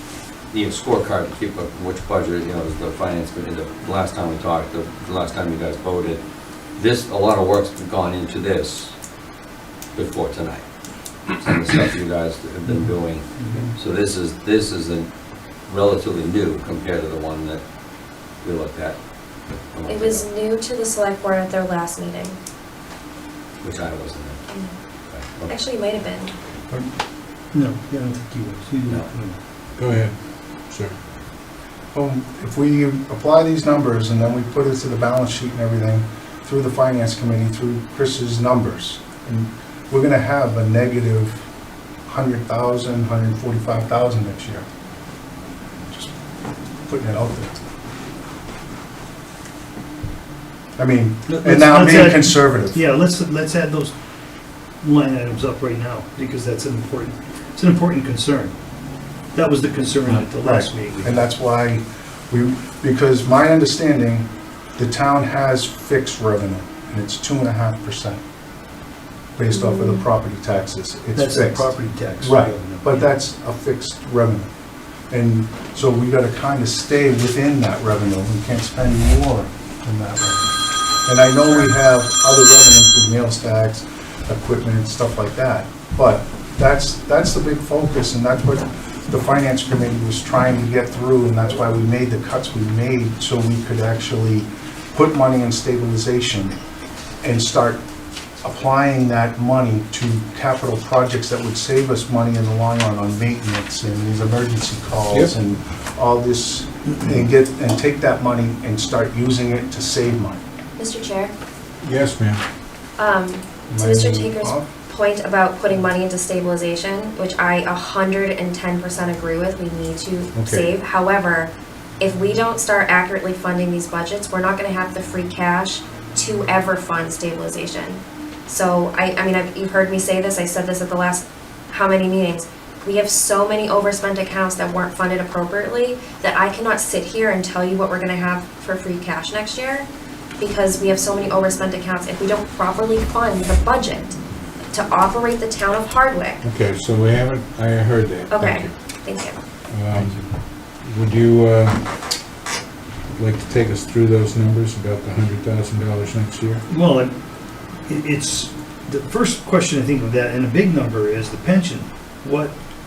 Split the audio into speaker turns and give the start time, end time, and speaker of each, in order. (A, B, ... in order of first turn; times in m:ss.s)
0:00.5-0:06.2 A
0:06.8-0:08.9 A
0:09.9-0:10.6 A
0:11.3-0:15.1 A
0:13.4-0:13.7 B
0:15.7-0:17.6 A
0:18.4-0:19.0 A
0:19.7-0:20.3 A
0:19.9-0:22.4 C
0:23.6-0:24.4 A
0:24.5-0:24.7 C
0:25.1-0:25.5 A
0:25.5-0:26.3 C
0:27.5-0:29.4 B
0:29.8-0:30.1 D
0:30.6-0:31.0 D
0:31.9-0:41.5 E
0:42.1-0:44.6 E
0:45.9-0:46.1 E
0:46.8-0:47.5 E
0:50.8-0:52.8 E
0:51.3-0:53.9 B
0:54.8-0:58.5 B
0:59.3-1:01.3 B
1:00.4-1:08.2 E
1:09.4-1:14.5 E
1:09.5-1:10.0 C
1:11.1-1:13.1 B
1:15.1-1:36.6 E
1:37.2-1:37.8 E
1:38.4-1:50.4 E
1:50.8-1:51.3 C
1:51.8-1:52.4 D
1:53.0-2:19.9 C
1:53.7-1:54.7 E
2:00.3-2:00.7 D
2:20.4-2:24.2 C
2:24.7-2:26.4 C
2:26.4-2:28.7 D
2:28.3-2:29.4 C
2:29.7-2:31.9 D
2:30.0-2:30.3 B
2:33.1-2:36.6 D
2:36.7-2:37.2 B
2:37.8-2:42.6 B